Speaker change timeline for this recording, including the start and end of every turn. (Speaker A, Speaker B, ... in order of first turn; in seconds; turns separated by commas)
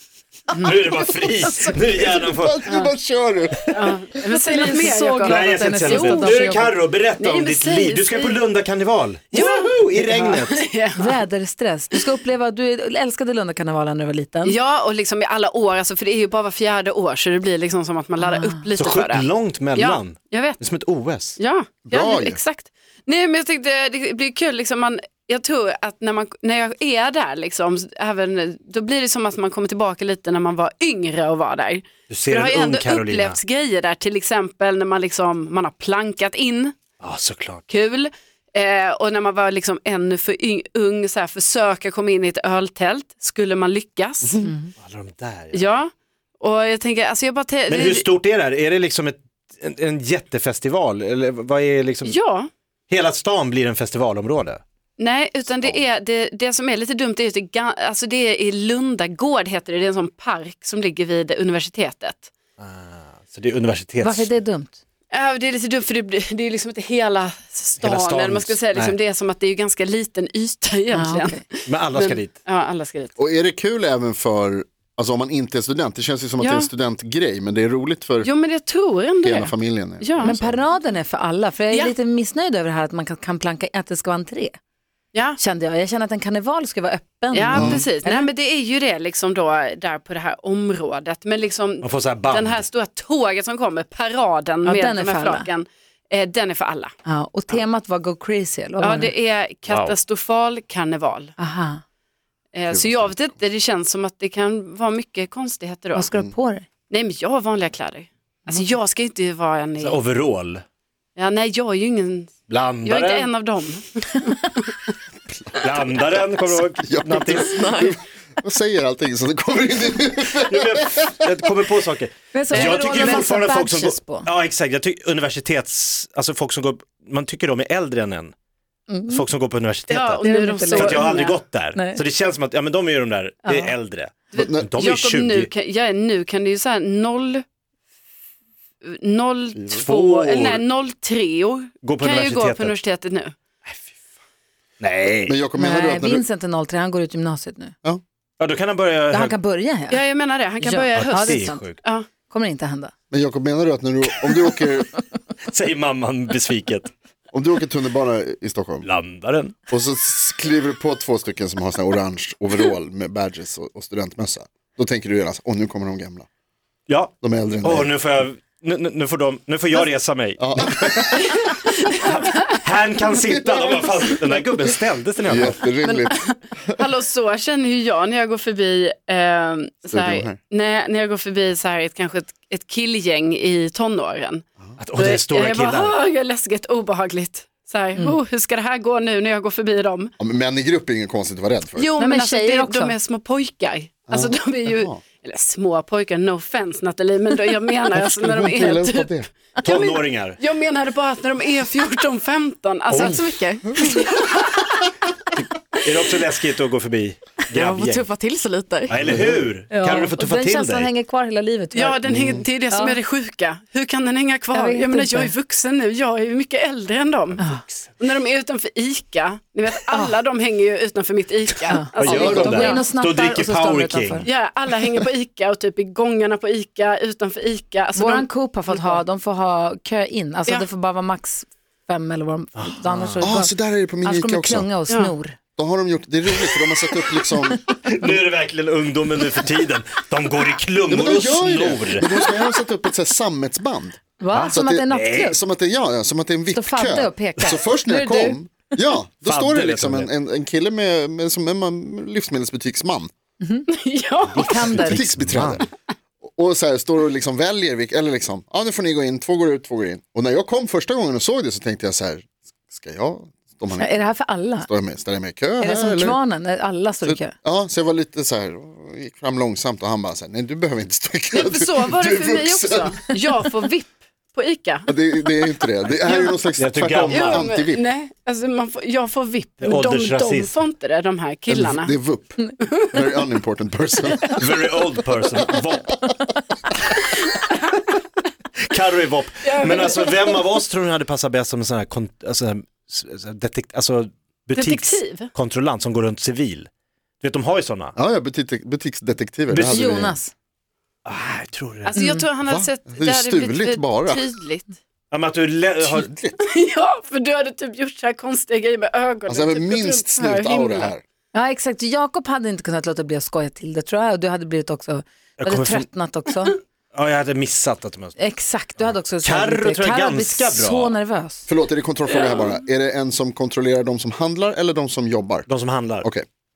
Speaker A: 0.5-2.6, Speaker B: 2.2-3.6, Speaker C: 3.7-8.4, Speaker D: 4.3-6.8, Speaker A: 5.2-10.6, Speaker C: 9.3-11.2, Speaker D: 10.9-14.6, Speaker C: 14.4-20.6, Speaker D: 18.2-18.6, Speaker A: 18.8-21.4, Speaker C: 21.4-36.8, Speaker B: 21.8-22.4, Speaker A: 32.1-33.4, Speaker A: 37.0-37.6, Speaker C: 37.7-44.5, Speaker D: 44.4-44.7, Speaker A: 44.8-45.6, Speaker C: 45.5-48.1, Speaker A: 47.7-52.2, Speaker C: 52.0-52.5, Speaker A: 52.9-54.6, Speaker C: 55.0-62.3, Speaker A: 62.6-64.3, Speaker D: 64.0-64.8, Speaker C: 65.1-73.1, Speaker A: 67.8-69.0, Speaker D: 70.9-71.4, Speaker A: 71.6-72.3, Speaker B: 73.2-78.3, Speaker C: 76.4-76.7, Speaker C: 78.2-80.4, Speaker B: 79.2-80.6, Speaker D: 80.2-84.5, Speaker D: 85.4-88.3, Speaker C: 87.3-96.9, Speaker B: 87.5-87.8, Speaker A: 91.8-92.6, Speaker D: 94.6-95.5, Speaker D: 97.0-99.1, Speaker C: 98.8-101.3, Speaker A: 99.7-99.9, Speaker D: 101.4-101.8, Speaker C: 102.5-106.1, Speaker B: 102.7-103.3, Speaker D: 105.9-106.7, Speaker C: 106.9-110.0, Speaker A: 109.8-110.6, Speaker C: 111.2-114.9, Speaker A: 112.5-113.3, Speaker A: 115.6-117.5, Speaker B: 116.8-121.1, Speaker E: 117.4-118.0, Speaker A: 120.5-128.3, Speaker D: 122.3-124.3, Speaker C: 122.5-123.3, Speaker D: 128.9-129.2, Speaker A: 129.1-135.5, Speaker C: 129.9-131.3, Speaker D: 130.2-132.0, Speaker D: 133.4-133.7, Speaker C: 134.3-137.4, Speaker B: 134.3-134.7, Speaker C: 138.8-143.3, Speaker B: 139.6-139.8, Speaker A: 139.8-140.6, Speaker A: 141.8-142.8, Speaker A: 143.7-143.9, Speaker A: 144.8-145.3, Speaker B: 145.3-146.2, Speaker D: 145.6-147.7, Speaker A: 148.4-149.4, Speaker D: 149.1-150.0, Speaker C: 149.9-152.1, Speaker D: 150.6-151.7, Speaker A: 150.9-151.8, Speaker D: 152.3-152.9, Speaker B: 153.1-154.9, Speaker A: 155.4-156.9, Speaker B: 157.3-158.8, Speaker A: 158.8-159.5, Speaker B: 159.7-166.2, Speaker A: 166.9-171.5, Speaker B: 167.2-167.9, Speaker B: 170.4-171.2, Speaker C: 171.2-172.5, Speaker A: 172.0-175.7, Speaker B: 175.2-176.2, Speaker C: 175.8-184.4, Speaker B: 179.9-180.3, Speaker A: 184.8-185.9, Speaker C: 184.9-190.1, Speaker B: 190.2-191.9, Speaker C: 191.8-204.9, Speaker D: 192.0-192.9, Speaker B: 194.1-195.0, Speaker B: 197.9-199.3, Speaker A: 199.6-200.4, Speaker A: 202.9-203.2, Speaker E: 203.0-204.1, Speaker A: 205.3-208.1, Speaker E: 207.5-209.2, Speaker A: 208.9-210.9, Speaker D: 209.7-212.0, Speaker C: 211.7-217.4, Speaker B: 212.1-212.4, Speaker D: 212.7-213.0, Speaker D: 214.5-215.3, Speaker D: 217.4-217.6, Speaker C: 218.0-222.8, Speaker D: 219.9-220.2, Speaker D: 221.7-224.3, Speaker B: 222.0-222.6, Speaker A: 222.0-224.2, Speaker C: 224.2-229.0, Speaker D: 227.9-235.4, Speaker A: 232.6-233.3, Speaker B: 233.2-234.7, Speaker B: 235.6-237.7, Speaker A: 237.8-242.1, Speaker B: 240.9-253.1, Speaker D: 244.2-245.4, Speaker A: 244.3-245.3, Speaker D: 246.5-248.4, Speaker A: 249.2-250.1, Speaker D: 253.4-253.7, Speaker C: 253.7-254.7, Speaker D: 254.3-255.0, Speaker A: 254.5-255.6, Speaker B: 254.7-255.6, Speaker B: 256.2-266.2, Speaker D: 263.7-264.7, Speaker D: 265.6-267.3, Speaker B: 267.0-273.0, Speaker C: 271.3-275.5, Speaker B: 274.9-277.9, Speaker C: 276.1-276.4, Speaker A: 276.6-277.4, Speaker C: 277.1-281.9, Speaker A: 279.6-280.6, Speaker B: 281.5-284.4, Speaker A: 284.4-286.0, Speaker A: 288.6-296.7, Speaker C: 289.4-290.4, Speaker C: 294.5-295.3, Speaker A: 297.2-297.9, Speaker B: 297.9-300.1, Speaker A: 299.5-300.1, Speaker D: 299.6-300.3, Speaker A: 301.1-301.9, Speaker C: 301.9-304.8, Speaker D: 301.9-302.2, Speaker B: 302.4-304.2, Speaker A: 305.1-306.1, Speaker B: 305.8-306.4, Speaker C: 306.4-310.9, Speaker B: 309.3-311.0, Speaker D: 311.3-316.6, Speaker A: 315.4-315.9, Speaker A: 316.9-318.2, Speaker D: 318.2-321.5, Speaker A: 319.2-320.9, Speaker B: 321.5-325.5, Speaker A: 325.5-326.1